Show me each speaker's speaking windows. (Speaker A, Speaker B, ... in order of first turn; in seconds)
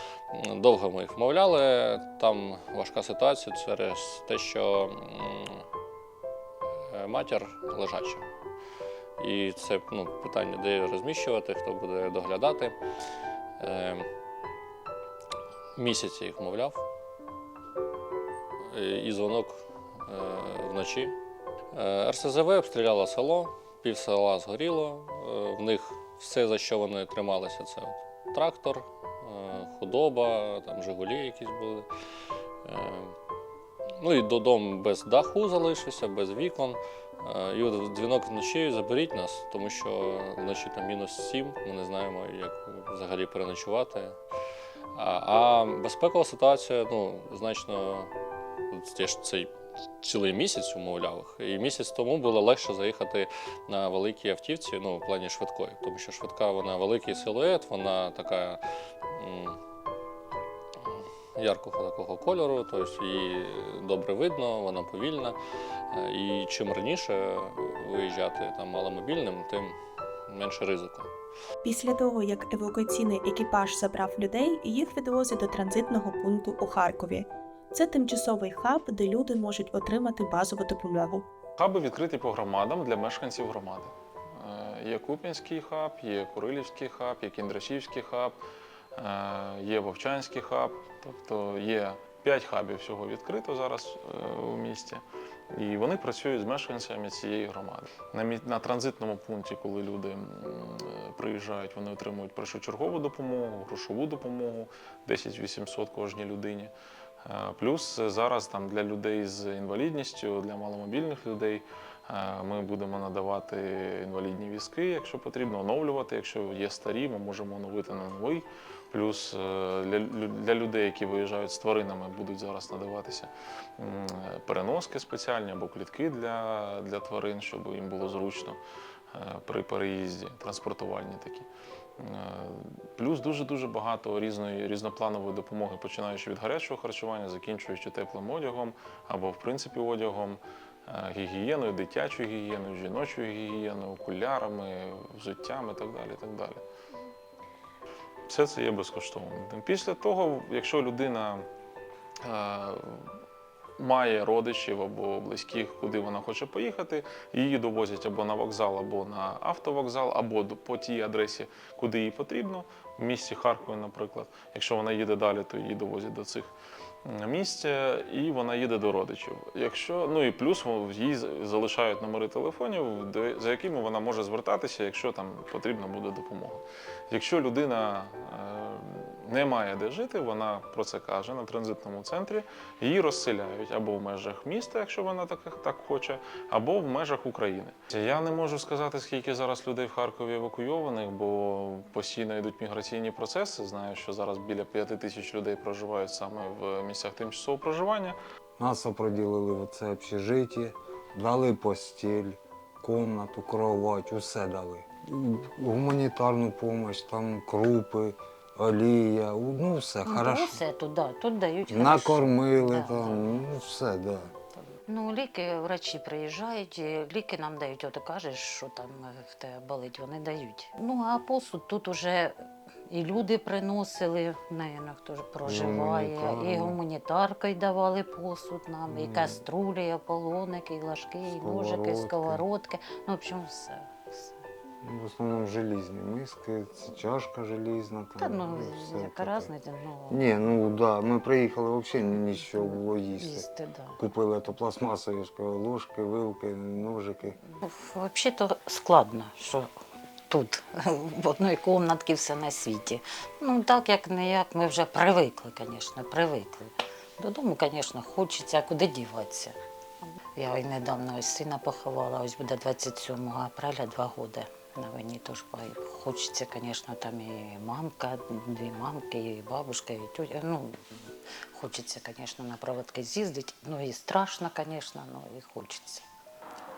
Speaker A: 0.3-5.6, 6.9-8.2, 9.2-12.8, 13.6-14.1, 15.8-16.8, 18.7-21.1, 21.7-31.9, 32.6-33.1, 34.0-44.2, 44.9-48.1, 48.7-49.5, 50.0-58.6, 59.1-59.6, 60.9-65.4, 65.9-69.8, 70.3-71.1
Speaker B: 71.6-81.2
Speaker C: 81.6-88.4, 88.9-106.7, 107.2-128.6, 129.1-131.5, 132.0-146.6, 148.3-151.4, 152.2-153.0, 153.8-166.5, 167.1-198.2
Speaker D: 198.6-210.6, 211.7-214.3, 225.4-226.8, 228.9-229.4, 231.2-232.4, 234.8-239.5, 240.1-243.5, 244.0-247.4
Speaker E: 210.0-213.5, 214.7-222.3, 222.9-234.3, 238.2-240.3, 242.1-244.0, 247.6-249.7, 250.3-259.6, 260.4-270.7, 271.5-276.0